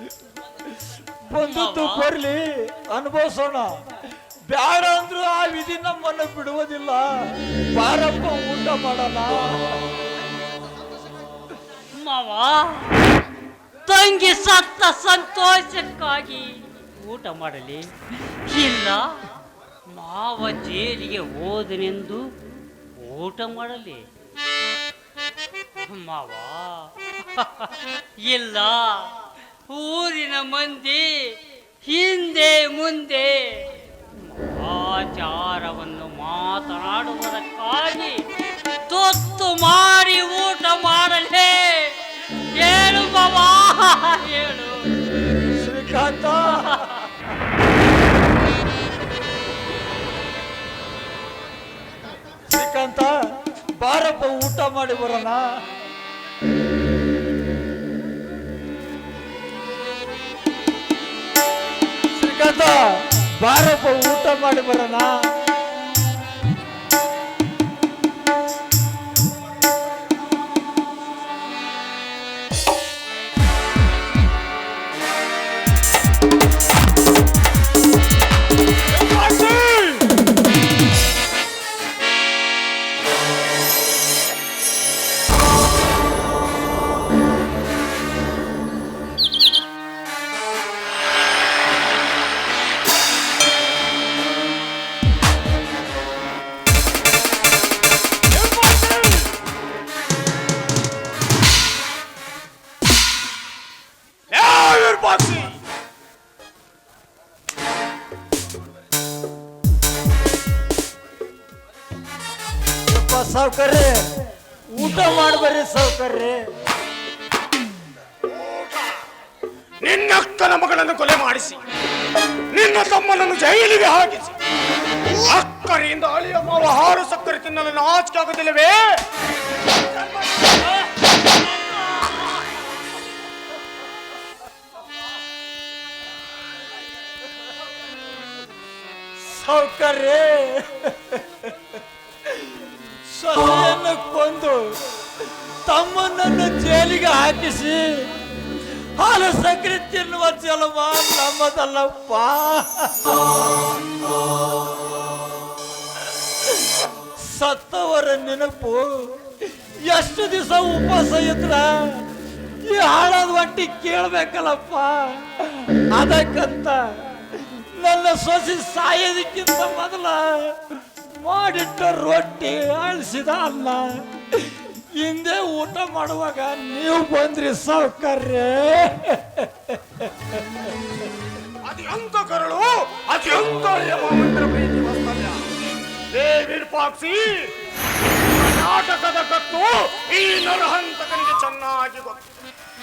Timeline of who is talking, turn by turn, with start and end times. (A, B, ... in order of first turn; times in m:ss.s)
0:01.3-0:03.7 A
0:01.4-0:02.1 B
0:04.5-0:09.8 A
0:11.9-0:13.0 B
0:13.8-0:17.9 B
0:18.5-0:19.2 B
0:19.9-0:22.2 B
0:23.0-0:24.0 B
0:25.9-0:29.1 B
0:29.7-0:38.2 B
0:38.9-0:42.0 B
0:42.6-0:44.9 B
0:45.5-0:46.8 A
0:46.6-0:46.9 B
0:52.5-0:53.1 A
0:53.8-0:55.4 A
1:02.1-1:05.2 A
1:18.9-1:20.0 C
1:38.3-1:39.3 C
1:44.3-1:45.5 C
1:52.9-1:54.1 A
1:54.7-1:56.5 A
1:58.3-1:59.0 C
1:59.8-2:01.6 C
2:02.5-2:04.3 C
2:05.1-2:09.0 C
2:09.7-2:10.5 C
2:19.2-2:21.4 A
2:22.3-2:24.8 A
2:25.6-2:28.1 A
2:29.0-2:33.2 A
2:37.2-2:39.2 A
2:39.8-2:42.1 A
2:42.6-2:50.6 A
2:51.2-3:00.1 A
3:01.6-3:05.4 C
3:06.1-3:07.5 C
3:08.3-3:12.2 C